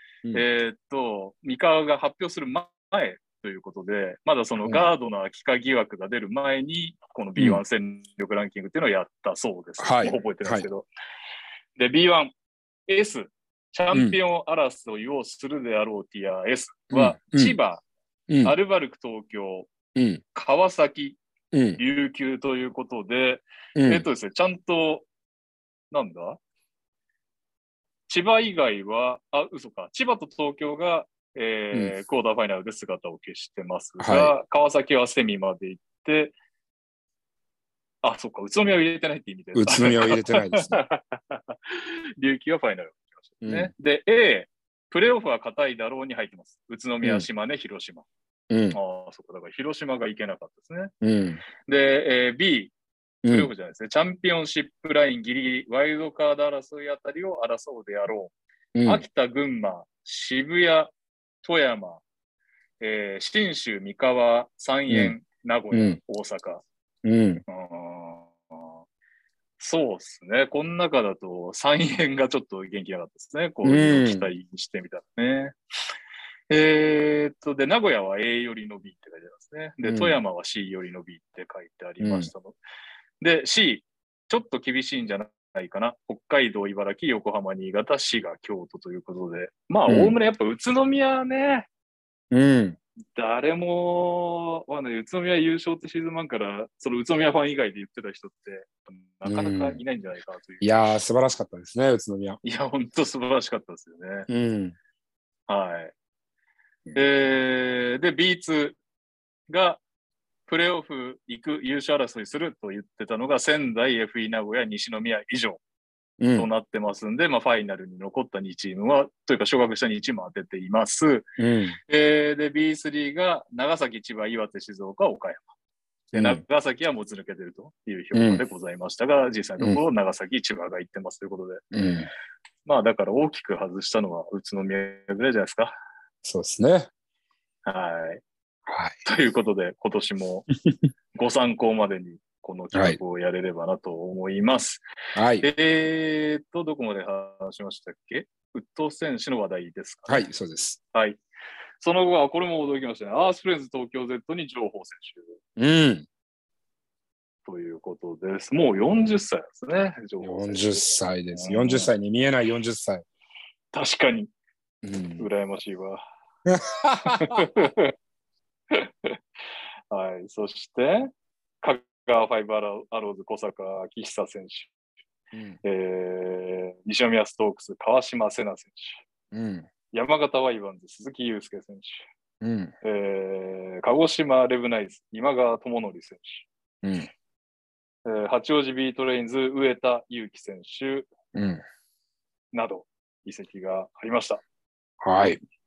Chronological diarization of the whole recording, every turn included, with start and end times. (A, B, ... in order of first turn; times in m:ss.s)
0:00.3-0:10.9 A
0:07.4-0:07.6 B
0:09.8-0:10.7 B
0:11.8-0:12.3 A
0:12.9-0:17.8 A
0:16.9-0:17.6 B
0:18.3-0:18.5 B
0:18.4-0:19.7 A
0:19.9-0:20.2 B
0:20.3-0:21.2 A
0:21.5-0:21.8 B
0:21.8-0:25.1 A
0:23.8-0:24.0 B
0:25.9-0:26.4 A
0:28.1-0:36.3 A
0:34.0-0:34.3 B
0:38.0-0:48.0 A
0:39.5-0:40.8 B
0:43.4-0:43.7 B
0:48.5-0:48.8 B
0:48.7-0:50.9 A
0:51.0-0:51.4 B
0:51.6-0:52.7 A
0:53.2-0:53.5 B
0:53.3-0:58.3 A
0:58.8-0:59.0 B
0:58.8-1:00.9 A
1:01.4-1:02.0 A
1:02.8-1:06.6 A
1:04.9-1:05.2 B
1:05.7-1:06.0 B
1:07.0-1:07.4 B
1:07.5-1:08.3 A
1:09.6-1:15.6 A
1:13.6-1:14.3 B
1:16.5-1:22.6 A
1:19.8-1:20.2 B
1:22.0-1:22.3 B
1:23.2-1:31.7 A
1:29.9-1:30.1 B
1:32.3-1:32.8 B
1:33.2-1:40.9 A
1:39.2-1:39.8 B
1:40.6-1:42.4 B
1:42.4-1:44.3 A
1:44.3-1:44.8 B
1:45.5-1:45.9 A
1:46.9-1:48.8 A
1:49.5-1:49.8 A
1:50.5-1:55.6 A
1:56.2-1:56.5 B
1:56.3-2:01.3 A
2:01.4-2:01.8 B
2:01.9-2:05.5 A
2:06.1-2:11.6 A
2:06.1-2:06.4 B
2:08.1-2:08.4 B
2:11.7-2:12.1 B
2:12.6-2:15.7 A
2:16.2-2:16.9 B
2:17.6-2:18.2 A
2:18.7-2:19.0 B
2:19.0-2:20.5 A
2:21.2-2:24.8 A
2:22.7-2:23.0 B
2:25.1-2:25.5 B
2:25.4-2:30.3 A
2:30.1-2:30.8 B
2:30.9-2:31.2 A
2:31.8-2:35.4 A
2:35.6-2:36.0 B
2:37.4-2:41.9 A
2:40.2-2:43.0 B
2:43.7-2:44.3 A
2:44.8-2:45.2 B
2:45.2-2:46.0 A
2:46.4-2:47.4 B
2:47.0-2:47.9 A
2:48.7-2:49.1 A
2:49.9-2:51.1 A
2:51.6-2:54.7 A
2:55.3-2:55.6 B
2:55.6-2:59.0 A
2:59.3-2:59.7 B
2:59.9-3:02.0 A
3:02.4-3:02.7 B
3:02.8-3:06.5 A
3:06.8-3:07.1 B
3:08.0-3:11.1 A
3:11.3-3:11.6 B
3:12.5-3:14.4 A
3:15.0-3:15.4 B